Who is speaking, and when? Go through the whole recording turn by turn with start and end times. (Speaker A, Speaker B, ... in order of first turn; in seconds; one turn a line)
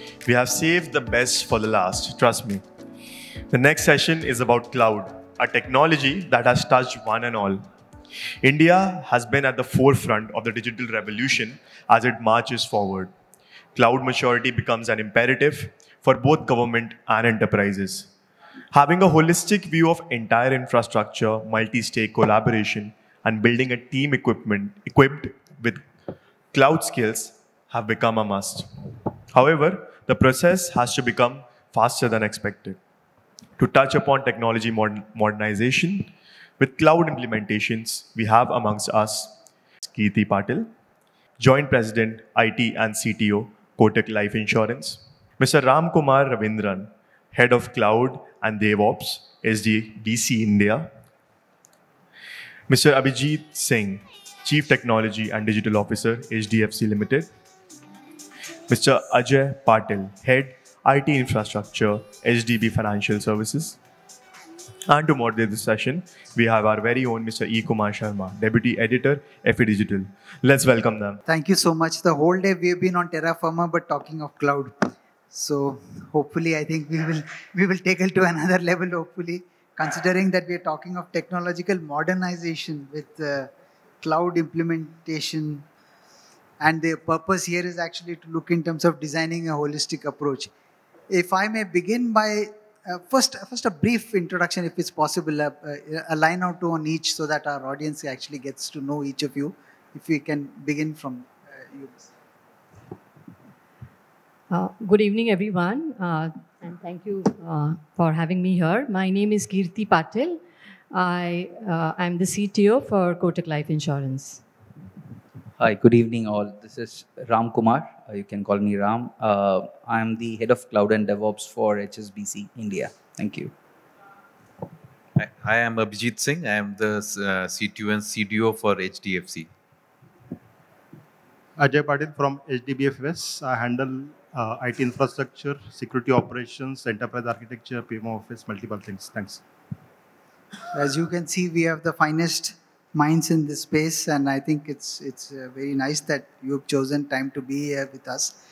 Speaker A: 0.2-2.6
Speaker A: 3.5-7.6
Speaker A: 8.4-13.1
Speaker A: 13.7-18.1
Speaker A: 18.7-25.9
Speaker A: 26.5-28.7
Speaker A: 29.3-32.8
Speaker A: 33.6-40.7
Speaker A: 41.4-50.9
Speaker A: 52.7-57.3
Speaker A: 58.7-63.8
Speaker A: 64.9-71.2
Speaker B: 71.3-85.7
Speaker B: 86.6-90.5
Speaker B: 91.1-102.1
Speaker C: 104.5-114.4
Speaker D: 115.6-123.5
Speaker E: 125.2-129.5
Speaker F: 131.6-139.4
Speaker B: 140.7-148.4